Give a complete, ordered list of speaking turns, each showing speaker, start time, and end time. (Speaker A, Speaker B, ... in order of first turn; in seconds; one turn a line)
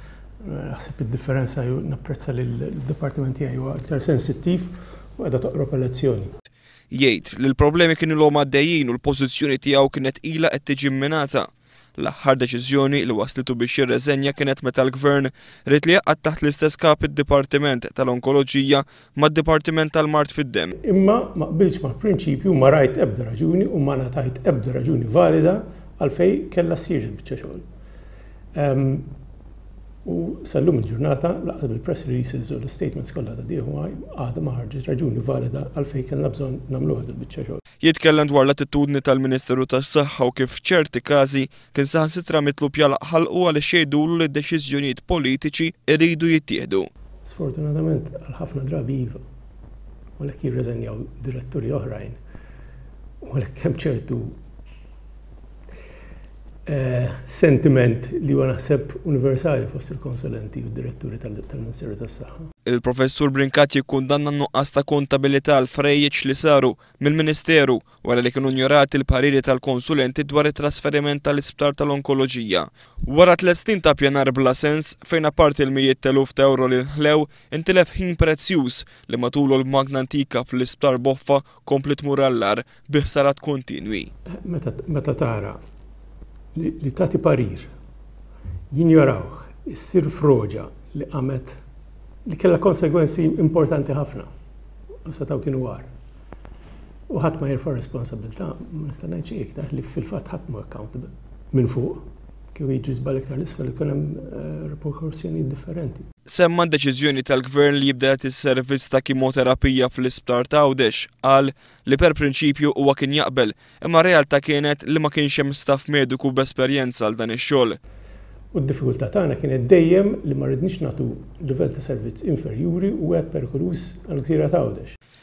Speaker A: 0.4-6.3
Speaker B: 6.9-20.7
Speaker A: 20.8-27.6
Speaker A: 28.6-29.1
Speaker A: 30.1-37.6
Speaker B: 37.8-46.9
Speaker A: 47.2-49.2
Speaker A: 50.2-52.2
Speaker A: 53.2-54.4
Speaker A: 56.7-62.4
Speaker B: 62.7-84.1
Speaker A: 84.4-85.6
Speaker A: 86.5-87.7
Speaker A: 88.7-91.6
Speaker A: 92.2-94.3
Speaker A: 95.0-95.9
Speaker A: 97.1-102.0
Speaker A: 102.5-106.1
Speaker B: 106.3-117.8
Speaker A: 118.5-125.0